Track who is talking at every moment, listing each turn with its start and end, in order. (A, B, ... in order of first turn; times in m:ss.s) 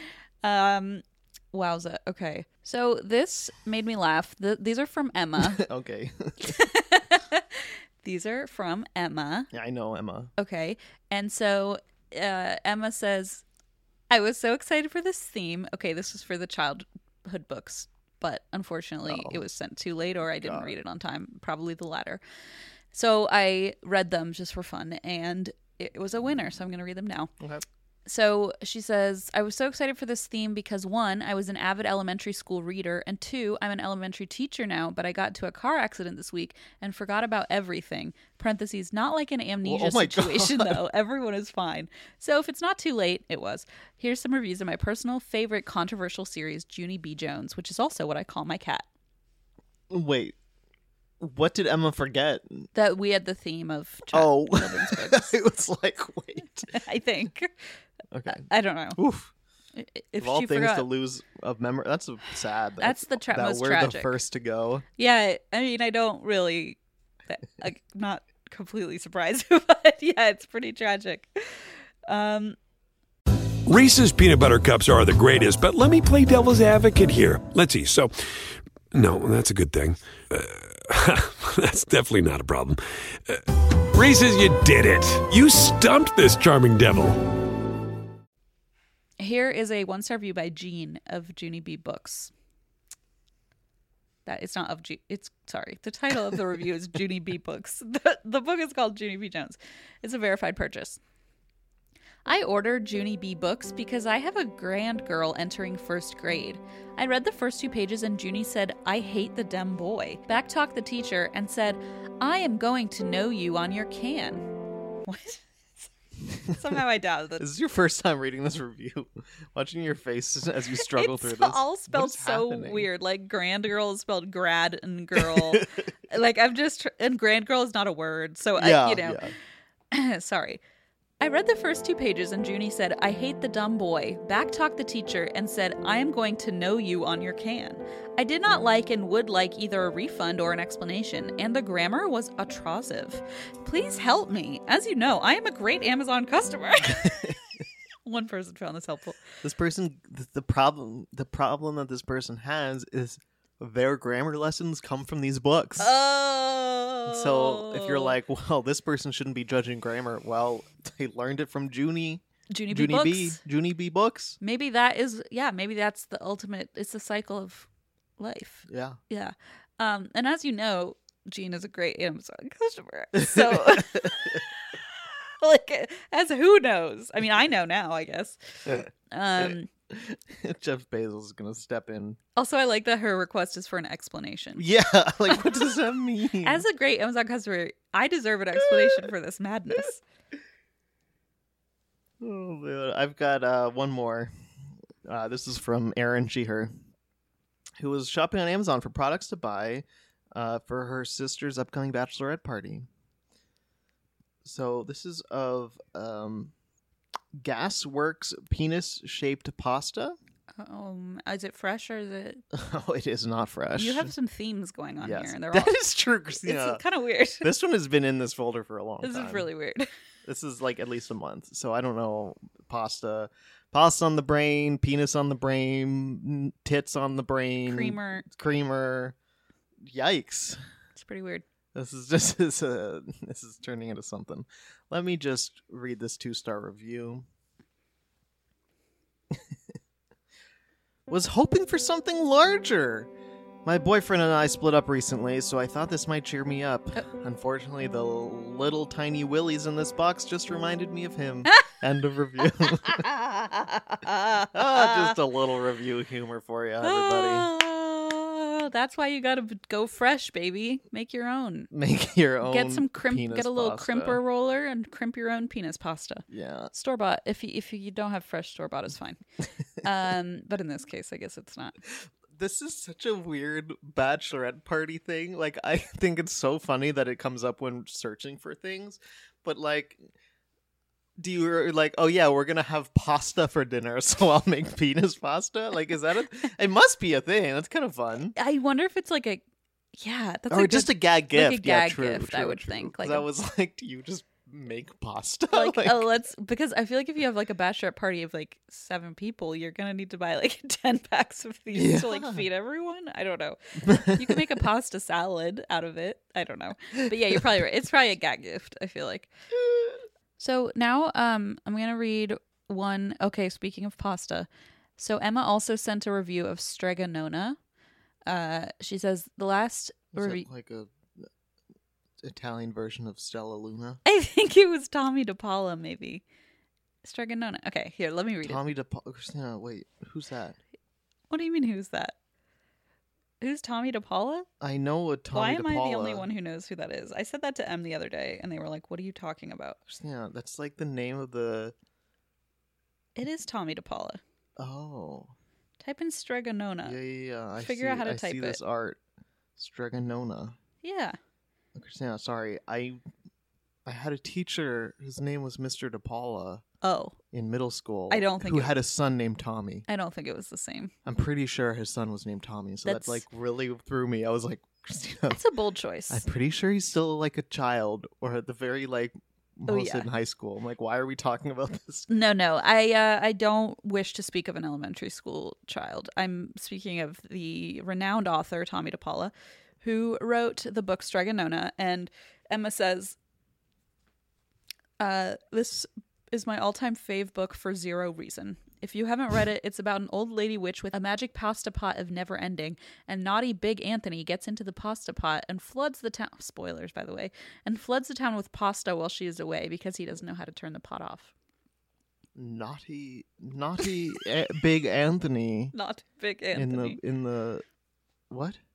0:00.4-0:05.6 A
0:05.4-0:06.6 B
0:06.4-0:09.5 A
0:09.5-0:10.3 B
0:10.4-0:13.4 A
0:14.1-0:22.2 A
0:19.1-0:19.4 B
0:20.4-0:20.7 B
0:22.9-0:27.3 A
0:28.1-0:48.8 A
0:39.6-0:40.8 B
0:49.9-0:50.4 B
0:51.2-0:52.7 B
0:52.7-0:55.4 A
0:54.1-0:56.7 B
0:56.7-0:57.7 A
0:58.1-0:59.3 B
0:58.3-0:59.0 A
0:59.8-1:00.9 A
1:00.2-1:04.8 B
1:02.8-1:04.2 A
1:05.0-1:12.6 A
1:13.6-1:27.2 C
1:29.2-1:32.3 A
1:34.2-1:41.0 A
1:42.2-1:54.5 A
1:55.0-1:55.9 A
1:56.4-1:57.5 A
1:57.4-2:02.9 B
2:00.8-2:09.2 A
2:05.2-2:05.6 B
2:08.6-2:09.3 B
2:09.9-2:10.6 A
2:11.2-2:27.3 A
2:26.8-2:27.4 B
2:28.0-2:29.2 A
2:29.4-2:35.9 B
2:35.8-2:38.2 A
2:37.0-2:44.4 B
2:42.5-2:43.4 A
2:44.4-2:59.7 A
2:48.7-2:49.0 B
2:53.1-2:54.4 B
2:59.4-3:02.2 B
3:02.4-3:04.7 A
3:04.6-3:06.6 B
3:06.4-3:10.0 A
3:08.6-3:09.1 B
3:12.2-3:14.3 B
3:15.0-3:16.7 B
3:17.8-3:22.9 B
3:24.4-3:26.5 B
3:27.3-3:30.2 B
3:30.5-3:32.4 A
3:32.5-3:34.1 B
3:33.7-3:35.8 A
3:35.0-3:36.8 B
3:36.4-3:37.5 A
3:37.4-3:39.5 B
3:39.0-3:39.9 A
3:40.2-3:49.1 B
3:47.6-3:48.3 A
3:49.8-3:50.6 B
3:51.0-3:51.4 A
3:51.7-3:57.2 B
4:01.1-4:03.1 B
4:03.6-4:13.1 B
4:12.7-4:15.2 A
4:14.5-4:17.5 B
4:16.8-4:21.7 A
4:21.7-4:24.2 B
4:22.4-4:29.2 A
4:26.3-4:26.7 B
4:29.8-4:31.8 A
4:31.9-4:40.0 B
4:41.2-4:48.4 B
4:48.3-4:49.4 A
4:49.9-4:53.3 A
4:50.5-4:56.1 B
4:55.5-5:09.3 A
5:01.7-5:02.5 B
5:03.9-5:04.4 B
5:10.4-5:17.6 A
5:18.2-5:20.4 A
5:20.1-5:21.3 B
5:22.2-5:24.0 B
5:24.0-5:26.2 A
5:27.0-5:28.6 A
5:28.4-5:30.6 B
5:31.3-5:32.2 A
5:33.4-5:34.5 A
5:34.6-5:36.3 B
5:35.3-5:39.8 A
5:39.9-5:41.7 B
5:43.2-5:44.2 A
5:44.6-5:45.3 B
5:45.8-5:47.0 A
5:46.8-5:49.0 B
5:47.6-5:48.6 A
5:49.6-5:50.6 B
5:50.8-5:51.2 A
5:51.7-5:53.0 B
5:53.8-5:56.6 B
5:56.8-5:57.2 A
5:57.3-5:59.8 B
5:58.1-5:58.7 A
5:59.9-6:00.9 A
6:01.0-6:05.4 B
6:02.8-6:03.2 A
6:05.3-6:06.2 A
6:06.1-6:12.1 B
6:09.7-6:10.1 A
6:12.1-6:23.2 A
6:25.0-6:41.3 A
6:42.4-6:45.7 B
6:45.7-6:47.0 A
6:46.5-6:47.6 B
6:48.3-6:48.6 B